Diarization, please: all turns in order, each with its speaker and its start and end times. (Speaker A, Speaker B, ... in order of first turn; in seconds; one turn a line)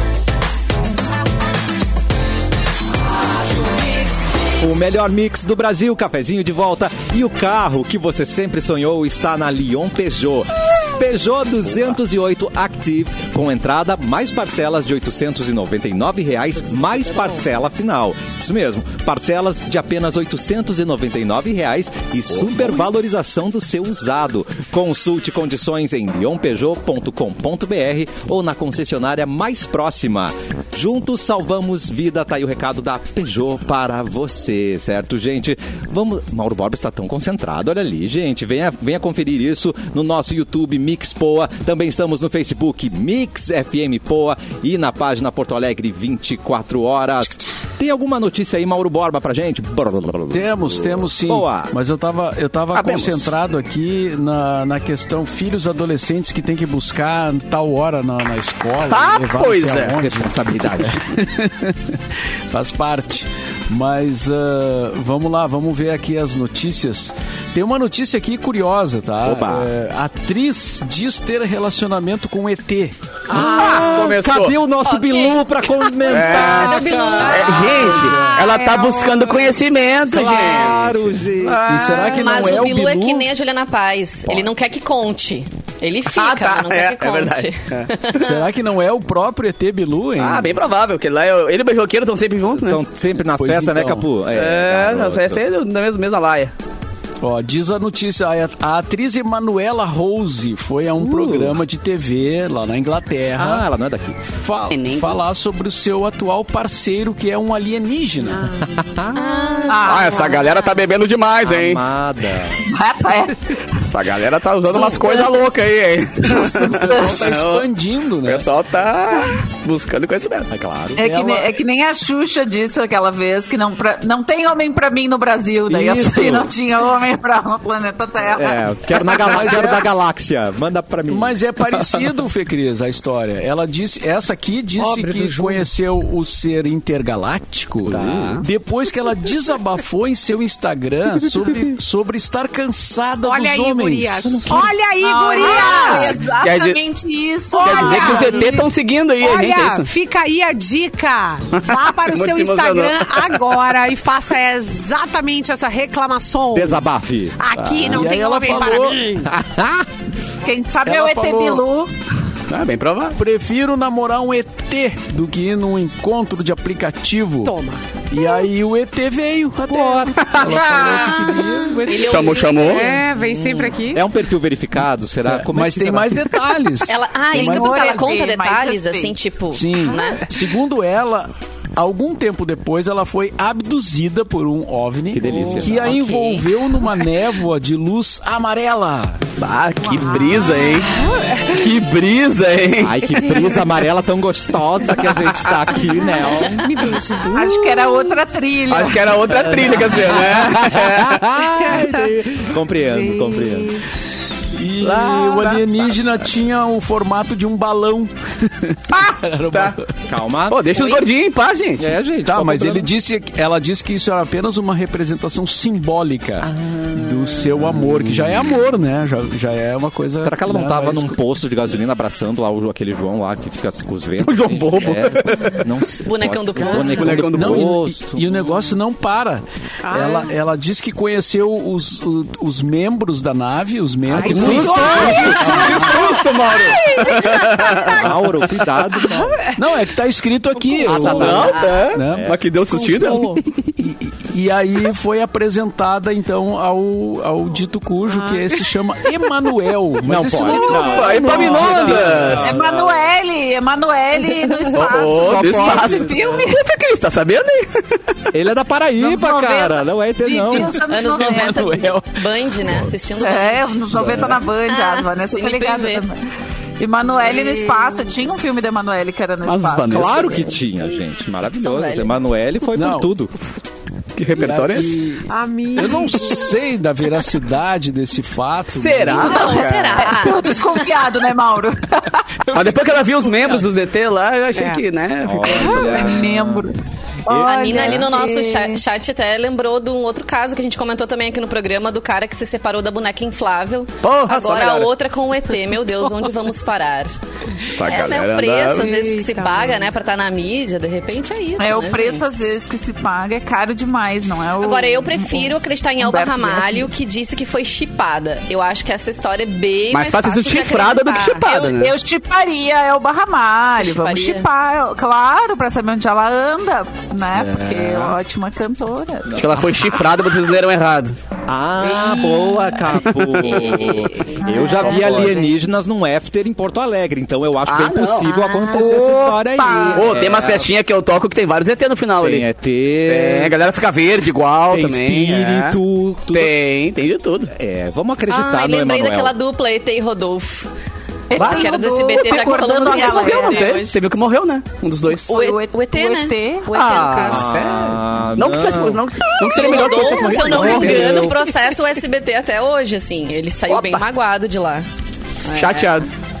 Speaker A: 4.6-51.7
Speaker B: 50.3-62.0
Speaker C: 52.7-53.3
Speaker C: 58.8-60.0
Speaker A: 60.0-61.0
Speaker B: 62.5-72.9
Speaker A: 69.2-69.7
Speaker D: 73.3-73.9
Speaker A: 73.3-77.7
Speaker C: 73.4-74.6
Speaker E: 74.8-77.5
Speaker C: 76.1-80.8
Speaker D: 77.2-79.6
Speaker B: 77.8-78.4
Speaker A: 80.0-81.6
Speaker E: 80.1-80.9
Speaker C: 81.4-82.8
Speaker B: 81.6-83.3
Speaker E: 82.1-88.4
Speaker C: 86.1-88.3
Speaker B: 88.1-90.6
Speaker C: 90.2-92.8
Speaker A: 92.6-95.4
Speaker B: 93.3-94.1
Speaker C: 94.3-96.5
Speaker B: 97.2-103.7
Speaker A: 101.0-101.5
Speaker A: 103.3-104.2
Speaker B: 104.4-108.5
Speaker C: 104.7-105.2
Speaker A: 108.7-109.2
Speaker E: 109.1-110.6
Speaker F: 109.7-110.2
Speaker C: 109.7-111.8
Speaker A: 111.4-112.6
Speaker F: 112.6-113.8
Speaker C: 113.8-117.7
Speaker B: 116.2-118.5
Speaker C: 118.2-120.5
Speaker A: 120.5-121.0
Speaker F: 121.0-129.3
Speaker B: 121.0-121.5
Speaker A: 125.7-126.5
Speaker A: 128.3-131.4
Speaker B: 129.2-129.9
Speaker B: 131.1-144.7
Speaker C: 137.9-138.4
Speaker D: 143.2-146.2
Speaker F: 145.0-148.7
Speaker C: 145.8-146.8
Speaker D: 147.5-148.5
Speaker C: 147.6-149.9
Speaker D: 149.2-156.8
Speaker C: 151.7-153.4
Speaker A: 156.5-157.4
Speaker D: 157.4-159.3
Speaker B: 157.7-159.1
Speaker A: 159.2-159.9
Speaker F: 160.4-161.9
Speaker B: 160.8-161.6
Speaker C: 162.5-163.2
Speaker B: 163.1-167.5
Speaker D: 167.4-167.8
Speaker B: 168.1-172.4
Speaker C: 170.2-170.9
Speaker E: 170.9-172.9
Speaker C: 171.9-172.9
Speaker D: 172.7-174.0
Speaker A: 173.4-176.3
Speaker B: 175.2-178.0
Speaker E: 176.8-180.2
Speaker F: 177.3-179.2
Speaker B: 179.5-189.2
Speaker A: 185.1-185.9
Speaker E: 185.8-186.5
Speaker C: 189.4-193.6
Speaker D: 190.2-191.7
Speaker A: 192.8-196.9
Speaker D: 193.1-193.6
Speaker D: 195.8-198.2
Speaker F: 197.3-199.1
Speaker C: 198.7-201.2
Speaker A: 199.3-203.8
Speaker D: 201.6-202.1
Speaker D: 202.8-203.9
Speaker B: 204.5-209.8
Speaker C: 204.8-205.8
Speaker C: 208.9-209.8
Speaker A: 210.0-210.9
Speaker C: 210.5-211.8
Speaker A: 211.8-212.9
Speaker B: 212.2-221.2
Speaker A: 216.4-218.4
Speaker A: 220.2-228.6
Speaker C: 224.2-225.7
Speaker E: 226.0-227.2
Speaker C: 226.6-227.7
Speaker B: 227.3-236.2
Speaker D: 229.8-230.3
Speaker D: 234.1-238.1
Speaker A: 234.2-236.0
Speaker C: 234.2-238.2
Speaker A: 237.8-239.4
Speaker D: 239.0-239.6
Speaker B: 239.6-242.3
Speaker A: 240.8-242.4
Speaker C: 240.9-243.4
Speaker D: 242.7-243.4
Speaker B: 243.8-252.6
Speaker D: 248.1-248.5
Speaker A: 250.0-253.0
Speaker C: 250.5-252.6
Speaker F: 252.4-256.6
Speaker C: 254.7-258.1
Speaker A: 255.2-256.2
Speaker A: 258.3-260.8
Speaker F: 259.0-261.9
Speaker E: 260.9-266.0
Speaker C: 261.1-262.2
Speaker F: 263.2-266.2
Speaker F: 266.8-270.5
Speaker D: 267.2-268.0
Speaker C: 269.4-270.4
Speaker A: 269.9-273.4
Speaker E: 271.6-272.1
Speaker B: 272.7-273.1
Speaker C: 274.1-275.0
Speaker B: 274.3-279.5
Speaker D: 275.3-276.5
Speaker C: 278.7-280.0
Speaker E: 279.2-280.7
Speaker F: 279.4-282.2
Speaker B: 282.5-283.5
Speaker C: 282.5-286.1
Speaker D: 284.5-284.8
Speaker A: 285.2-286.7
Speaker F: 285.5-286.7
Speaker F: 287.2-288.8
Speaker A: 287.3-288.1
Speaker E: 287.4-297.1
Speaker C: 294.0-294.9
Speaker C: 297.7-299.0
Speaker E: 297.8-302.4
Speaker D: 298.8-299.9
Speaker F: 301.6-306.9
Speaker E: 304.6-311.4
Speaker C: 309.9-311.9
Speaker F: 311.4-319.4
Speaker E: 313.8-314.5
Speaker A: 317.3-318.2
Speaker A: 319.3-319.8
Speaker C: 319.3-321.2
Speaker A: 321.5-330.7
Speaker C: 323.6-324.0
Speaker F: 323.6-325.4
Speaker C: 324.7-325.5
Speaker C: 327.6-332.5
Speaker E: 328.2-328.9
Speaker F: 329.5-330.2
Speaker A: 332.2-333.6
Speaker C: 333.0-335.8
Speaker A: 334.7-336.5
Speaker C: 336.3-337.5
Speaker A: 337.5-339.3
Speaker E: 338.3-340.7
Speaker F: 341.3-343.8
Speaker E: 341.3-344.0
Speaker C: 341.4-345.4
Speaker F: 345.3-347.0
Speaker E: 345.3-347.5
Speaker C: 346.7-351.6
Speaker A: 347.2-349.0
Speaker E: 349.4-354.9
Speaker A: 350.4-351.4
Speaker C: 353.7-354.1
Speaker E: 355.4-355.9
Speaker C: 355.5-356.1